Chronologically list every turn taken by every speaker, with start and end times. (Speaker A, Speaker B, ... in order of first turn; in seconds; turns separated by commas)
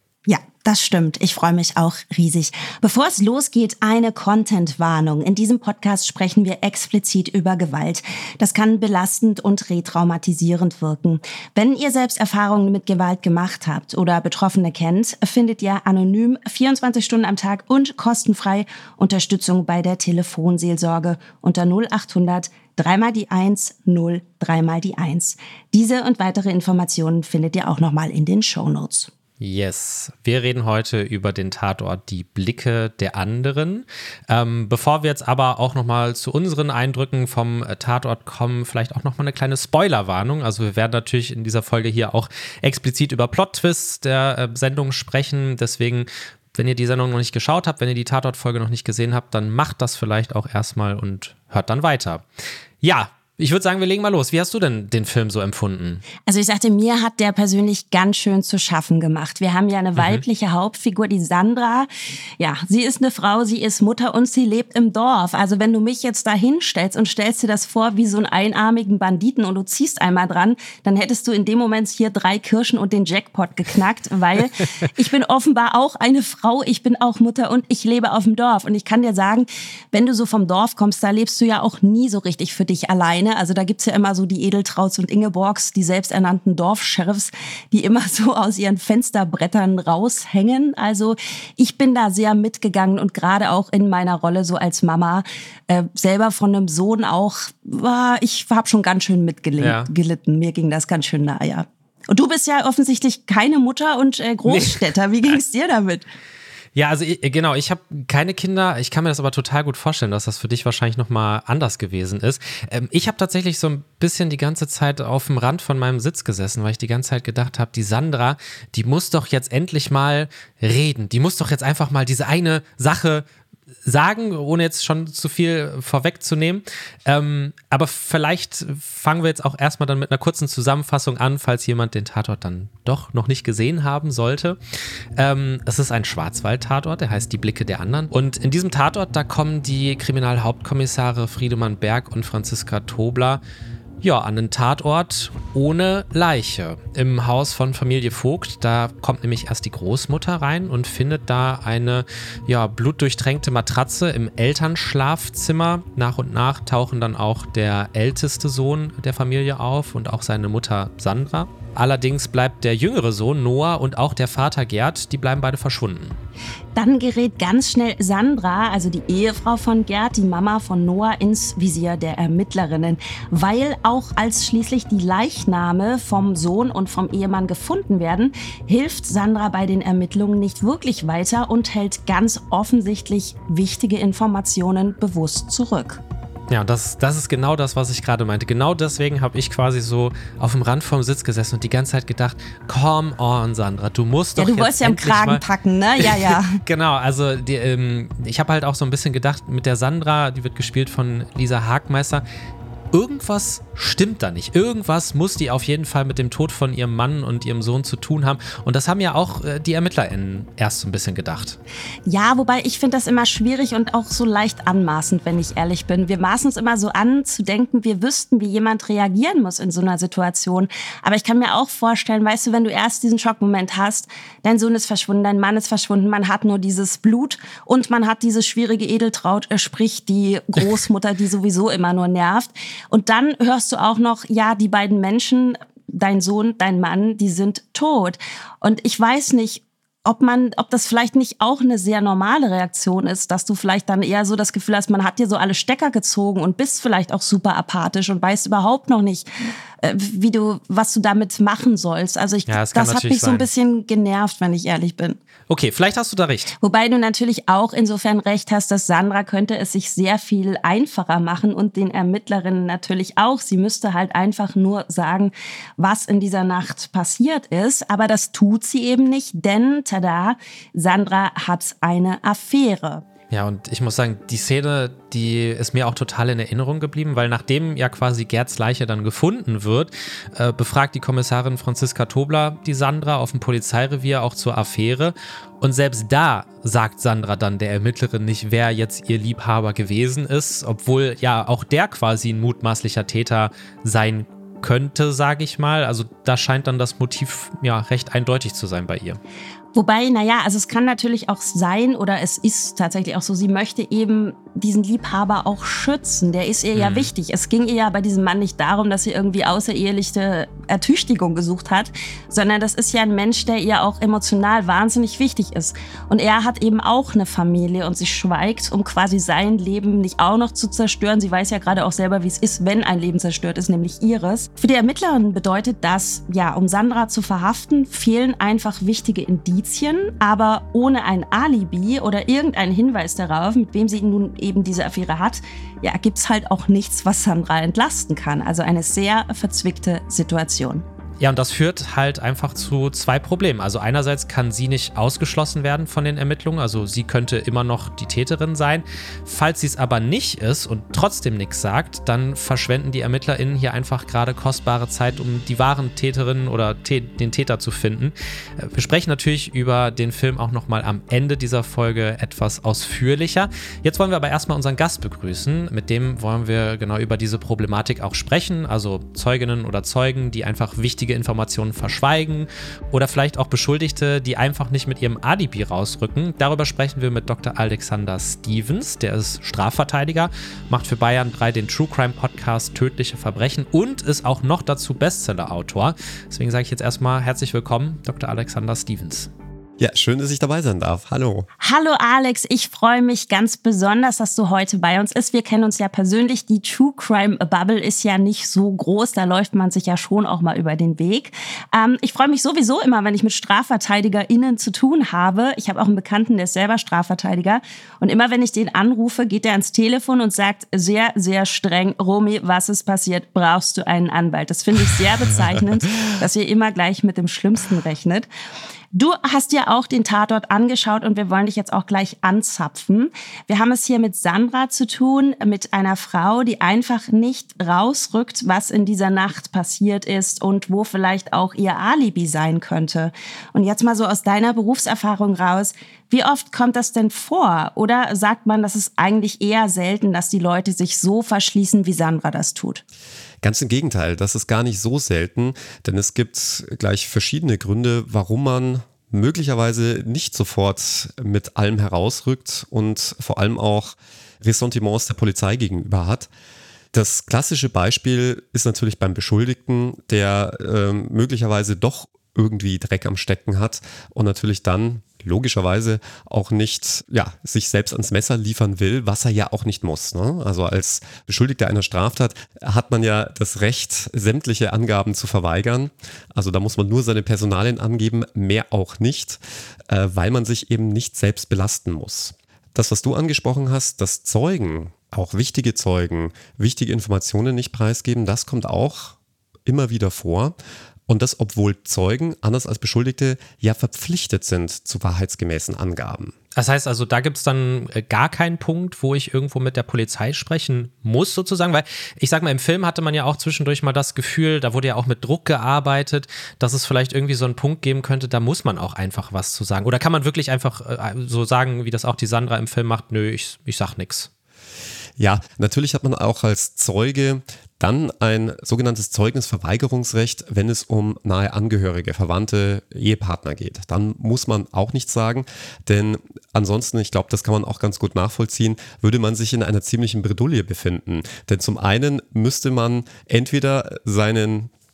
Speaker A: 0.2-29.1, Speaker B: 29.4-52.2, Speaker B: 52.8-56.0, Speaker A: 56.2-106.0, Speaker B: 60.0-60.2, Speaker B: 99.6-99.9, Speaker B: 104.5-104.9, Speaker B: 106.7-123.2, Speaker B: 123.8-134.6, Speaker B: 135.2-143.4, Speaker B: 144.0-166.2, Speaker A: 166.7-186.0, Speaker B: 186.5-195.4, Speaker A: 194.4-196.6, Speaker B: 196.0-202.2, Speaker B: 202.9-211.6, Speaker A: 212.1-249.3, Speaker A: 249.8-255.2, Speaker B: 252.5-253.5, Speaker B: 255.5-256.5, Speaker A: 256.6-273.0, Speaker B: 273.3-299.2, Speaker A: 299.7-340.8, Speaker B: 306.7-307.1, Speaker B: 341.2-389.3, Speaker C: 389.8-391.5, Speaker A: 391.6-418.3, Speaker A: 418.9-442.8, Speaker C: 443.4-456.3, Speaker C: 456.9-490.6, Speaker C: 491.1-496.3, Speaker B: 496.5-514.3, Speaker C: 515.2-534.7